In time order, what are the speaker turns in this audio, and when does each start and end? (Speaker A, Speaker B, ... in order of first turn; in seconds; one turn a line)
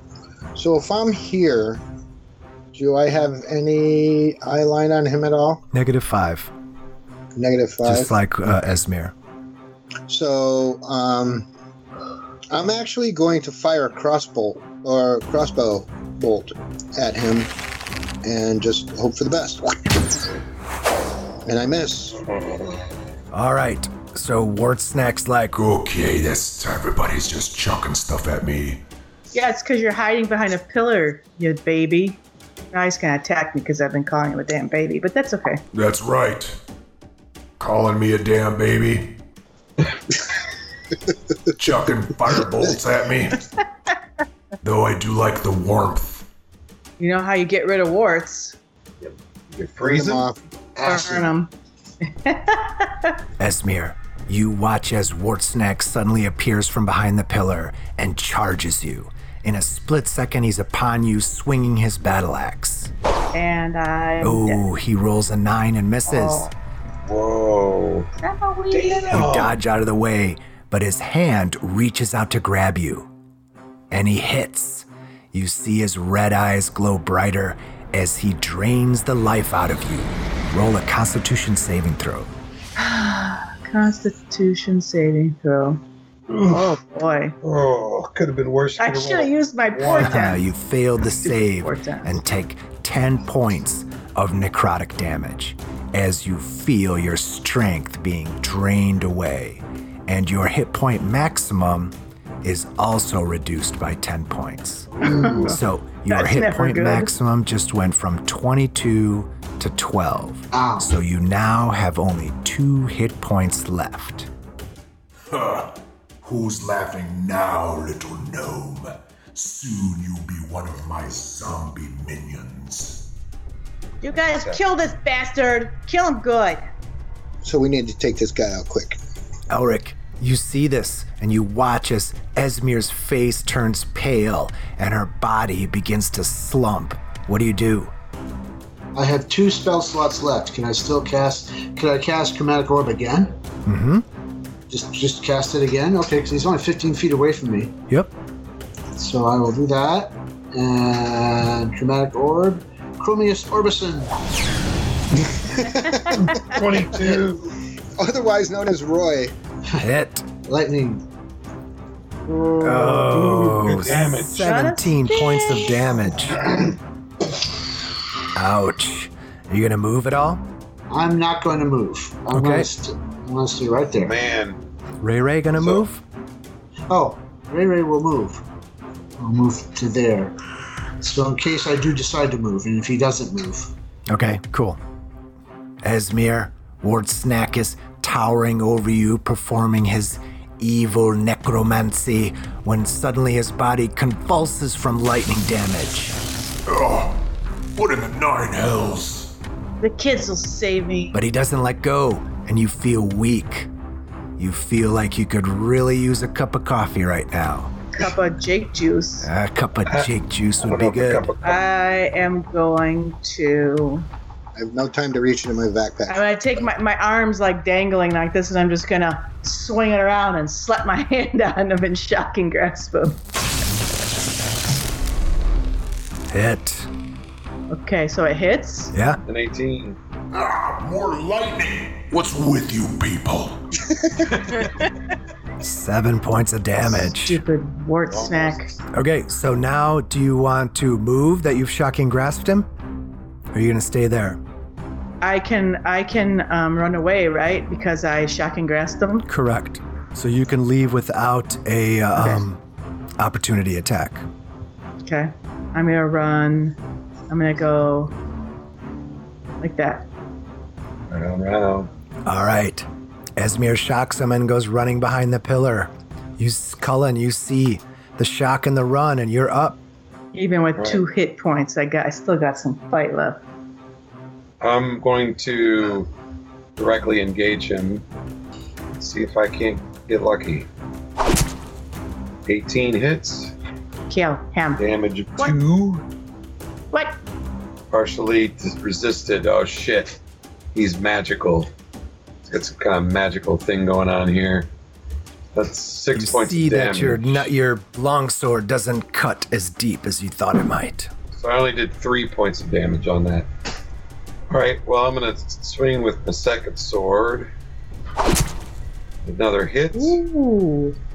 Speaker A: 0.6-1.8
Speaker A: 2.7-5.6
Speaker B: 5.7-6.5
Speaker A: 7.3-8.1
Speaker B: 7.8-9.1
Speaker A: 10.1-11.5
Speaker A: 12.5-17.5
Speaker A: 18.2-20.1
Speaker A: 21.4-22.2
Speaker C: 22.3-22.6
Speaker B: 23.3-25.5
Speaker D: 25.5-28.8
Speaker E: 29.3-32.2
Speaker E: 32.7-35.6
Speaker D: 35.7-36.6
Speaker D: 37.6-39.2
Speaker D: 41.5-43.4
Speaker D: 44.6-46.2
Speaker E: 47.0-48.6
Speaker C: 49.0-50.3
Speaker A: 49.8-50.4
Speaker F: 50.8-51.3
Speaker E: 50.8-51.5
Speaker E: 52.0-53.1
Speaker B: 53.4-62.9
Speaker E: 63.3-64.6
Speaker B: 64.2-66.5
Speaker C: 66.2-66.5
Speaker C: 67.0-68.1
Speaker E: 68.2-69.2
Speaker C: 68.7-69.5
Speaker B: 69.1-73.1
Speaker B: 73.9-82.3
Speaker E: 82.8-85.8
Speaker C: 86.3-86.8
Speaker E: 86.5-87.3
Speaker C: 87.4-90.2
Speaker E: 88.8-90.4
Speaker B: 90.0-114.3
Speaker E: 91.5-92.1
Speaker E: 105.0-105.5
Speaker F: 105.2-105.4
Speaker E: 106.1-107.1
Speaker F: 110.5-110.9
Speaker D: 115.3-123.1
Speaker E: 124.0-126.6
Speaker C: 124.0-124.6
Speaker A: 127.4-129.0
Speaker B: 129.5-137.9
Speaker F: 138.9-143.4
Speaker B: 143.6-144.0
Speaker F: 144.7-147.8
Speaker F: 148.9-154.1
Speaker A: 155.6-157.1
Speaker E: 155.8-156.5
Speaker C: 156.1-157.5
Speaker A: 158.0-159.3
Speaker B: 159.8-160.2
Speaker F: 160.4-161.0
Speaker E: 162.3-165.7
Speaker B: 162.6-166.4
Speaker C: 163.5-164.4
Speaker B: 168.3-170.4
Speaker F: 170.9-174.2
Speaker B: 172.3-172.7
Speaker C: 174.0-174.6
Speaker B: 175.0-176.0
Speaker C: 175.6-175.8
Speaker F: 176.9-178.4
Speaker F: 179.2-180.3
Speaker F: 181.0-183.7
Speaker B: 184.1-184.8
Speaker B: 185.8-196.2
Speaker D: 196.7-199.3
Speaker E: 199.8-201.2
Speaker B: 201.1-203.7
Speaker B: 204.4-207.7
Speaker E: 207.9-209.3
Speaker B: 209.2-211.3
Speaker C: 209.9-211.6
Speaker E: 211.4-214.1
Speaker A: 214.6-216.2
Speaker E: 216.1-223.2
Speaker B: 226.3-226.9
Speaker E: 227.7-228.9
Speaker B: 228.9-229.2
Speaker C: 229.2-230.0
Speaker D: 230.3-233.6
Speaker C: 234.2-234.7
Speaker B: 235.6-237.4
Speaker E: 236.9-238.7
Speaker C: 238.1-238.8
Speaker B: 238.9-242.7
Speaker B: 243.5-244.4
Speaker E: 245.2-249.3
Speaker B: 249.2-252.6
Speaker E: 252.2-252.4
Speaker B: 253.2-254.2
Speaker E: 255.0-256.8
Speaker E: 257.3-258.1
Speaker E: 259.6-260.1
Speaker C: 261.1-261.9
Speaker B: 262.2-262.9
Speaker B: 263.4-269.8
Speaker E: 270.3-273.4
Speaker C: 270.8-271.0
Speaker C: 274.6-276.1
Speaker C: 276.8-278.0
Speaker C: 278.9-280.7
Speaker C: 282.4-283.5
Speaker E: 284.1-285.6
Speaker C: 284.8-286.0
Speaker C: 287.9-290.2
Speaker C: 290.7-291.7
Speaker C: 292.4-294.7
Speaker C: 295.5-297.5
Speaker B: 296.1-301.1
Speaker C: 301.3-303.5
Speaker C: 304.5-307.5
Speaker C: 309.2-310.2
Speaker E: 309.9-311.0